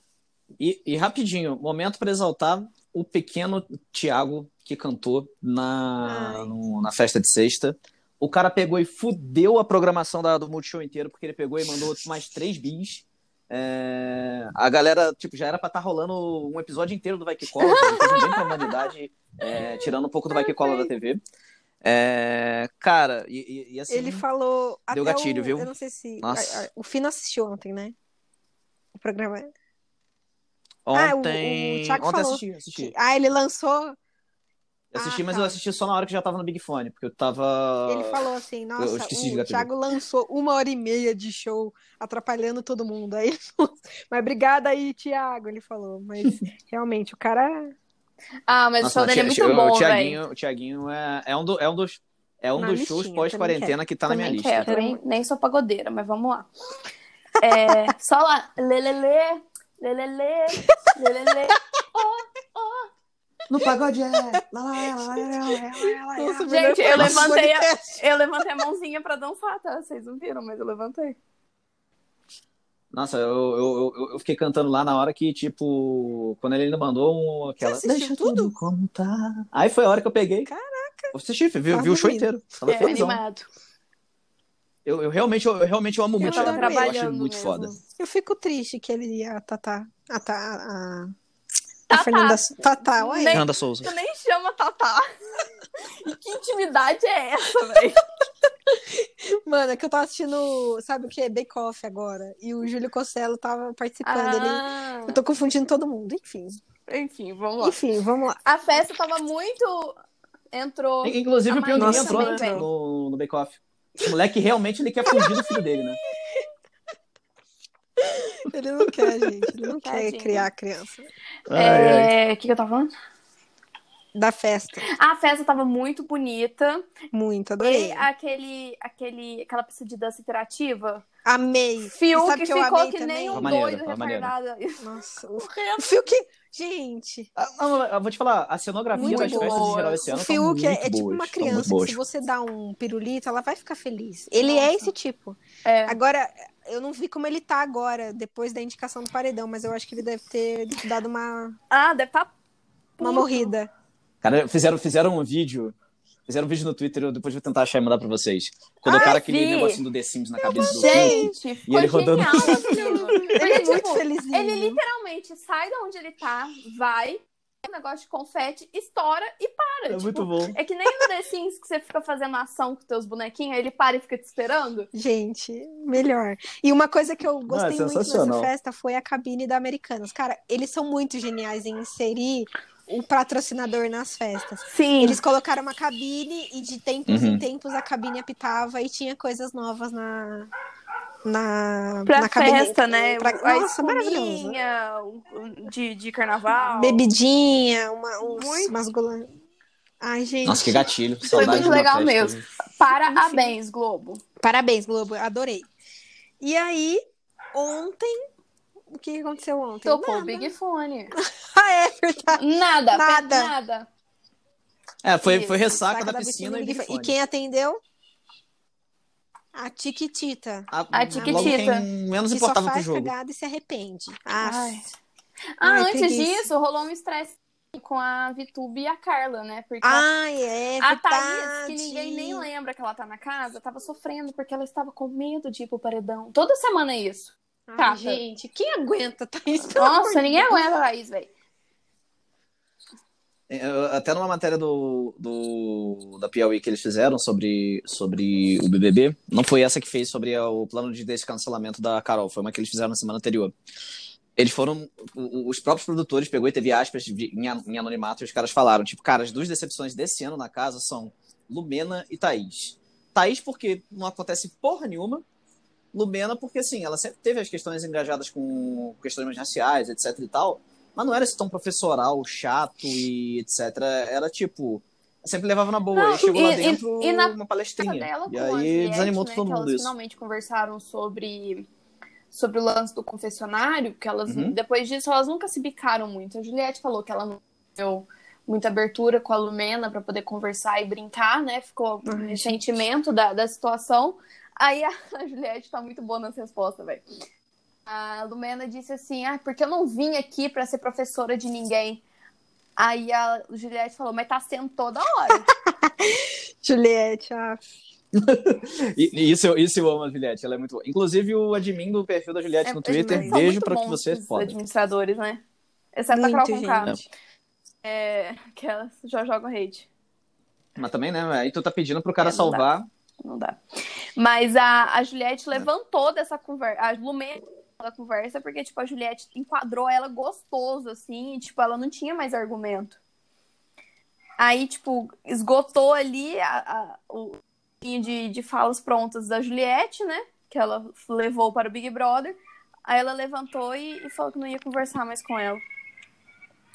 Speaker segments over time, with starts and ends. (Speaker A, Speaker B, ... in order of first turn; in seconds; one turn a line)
Speaker A: 0.6-21.2
Speaker B: 6.0-6.5
Speaker C: 17.6-18.8
Speaker C: 20.3-20.8
Speaker A: 21.8-24.2
Speaker B: 23.9-27.9
Speaker A: 24.9-25.7
Speaker A: 26.2-26.6
Speaker B: 28.9-29.5
Speaker A: 30.9-32.9
Speaker B: 30.9-34.0
Speaker A: 34.9-38.2
Speaker B: 35.0-35.6
Speaker B: 37.9-47.7
Speaker A: 38.8-39.7
Speaker C: 48.5-50.2
Speaker A: 48.8-54.7
Speaker B: 52.6-55.0
Speaker C: 54.1-56.5
Speaker C: 57.4-62.9
Speaker B: 57.5-57.9
Speaker A: 63.5-67.3
Speaker B: 64.3-68.0
Speaker C: 66.5-71.2
Speaker A: 72.9-80.5
Speaker B: 77.6-78.5
Speaker B: 80.5-81.1
Speaker A: 81.1-83.2
Speaker B: 81.7-82.3
Speaker C: 82.7-83.5
Speaker A: 84.8-87.7
Speaker B: 86.2-86.9
Speaker C: 86.2-87.8
Speaker B: 87.9-91.1
Speaker C: 91.9-92.4
Speaker B: 91.9-93.4
Speaker C: 93.0-95.0
Speaker A: 93.3-93.9
Speaker C: 95.8-98.0
Speaker B: 98.7-106.6
Speaker C: 104.0-105.2
Speaker C: 106.9-107.8
Speaker B: 107.6-108.4
Speaker C: 108.4-110.0
Speaker C: 110.5-112.6
Speaker A: 111.0-116.0
Speaker B: 111.8-112.7
Speaker B: 115.0-116.5
Speaker B: 118.0-121.1
Speaker C: 119.8-120.5
Speaker A: 121.5-122.1
Speaker C: 121.5-122.9
Speaker B: 124.1-124.8
Speaker C: 124.8-126.9
Speaker B: 127.1-128.1
Speaker C: 127.6-131.0
Speaker B: 131.2-133.5
Speaker C: 131.9-135.9
Speaker A: 133.3-134.3
Speaker B: 134.8-137.3
Speaker A: 137.3-142.0
Speaker B: 138.9-151.6
Speaker C: 139.0-140.0
Speaker C: 144.4-144.9
Speaker C: 145.6-146.0
Speaker C: 151.7-152.3
Speaker C: 153.0-153.5
Speaker B: 153.0-153.7
Speaker A: 154.2-155.7
Speaker A: 156.3-163.3
Speaker C: 158.9-159.8
Speaker B: 160.4-161.3
Speaker C: 160.6-174.9
Speaker B: 162.3-164.8
Speaker A: 169.9-170.6
Speaker B: 174.9-190.5
Speaker A: 177.5-178.5
Speaker C: 184.7-185.2
Speaker A: 187.1-187.4
Speaker B: 191.2-194.6
Speaker C: 192.1-197.1
Speaker B: 196.7-199.3
Speaker C: 198.2-198.8
Speaker B: 200.0-201.8
Speaker A: 200.4-202.4
Speaker C: 201.3-204.2
Speaker B: 202.9-203.5
Speaker B: 204.4-205.7
Speaker B: 206.4-207.0
Speaker B: 207.5-208.2
Speaker B: 208.9-210.5
Speaker C: 209.8-211.1
Speaker B: 211.2-213.5
Speaker C: 212.3-213.9
Speaker A: 215.0-217.2
Speaker C: 215.2-215.7
Speaker B: 215.7-217.8
Speaker B: 219.5-221.7
Speaker A: 220.7-223.1
Speaker C: 220.9-221.9
Speaker B: 222.3-224.8
Speaker C: 224.4-224.9
Speaker C: 225.6-230.1
Speaker B: 225.6-226.5
Speaker B: 229.8-232.4
Speaker C: 230.8-238.2
Speaker B: 237.7-240.7
Speaker C: 239.7-241.3
Speaker A: 243.5-253.5
Speaker A: 254.4-265.2
Speaker A: 265.9-279.9
Speaker C: 275.9-281.7
Speaker C: 282.3-297.0
Speaker A: 284.3-284.6
Speaker B: 292.1-292.6
Speaker C: 297.9-302.0
Speaker C: 302.8-305.5
Speaker B: 305.3-307.6
Speaker A: 308.1-314.6
Speaker C: 312.6-315.4
Speaker B: 312.9-313.4
Speaker C: 315.9-317.0
Speaker B: 316.1-317.0
Speaker C: 317.8-319.9
Speaker A: 320.8-322.9
Speaker C: 322.2-322.7
Speaker C: 323.2-323.6
Speaker C: 324.1-333.0
Speaker C: 334.4-345.6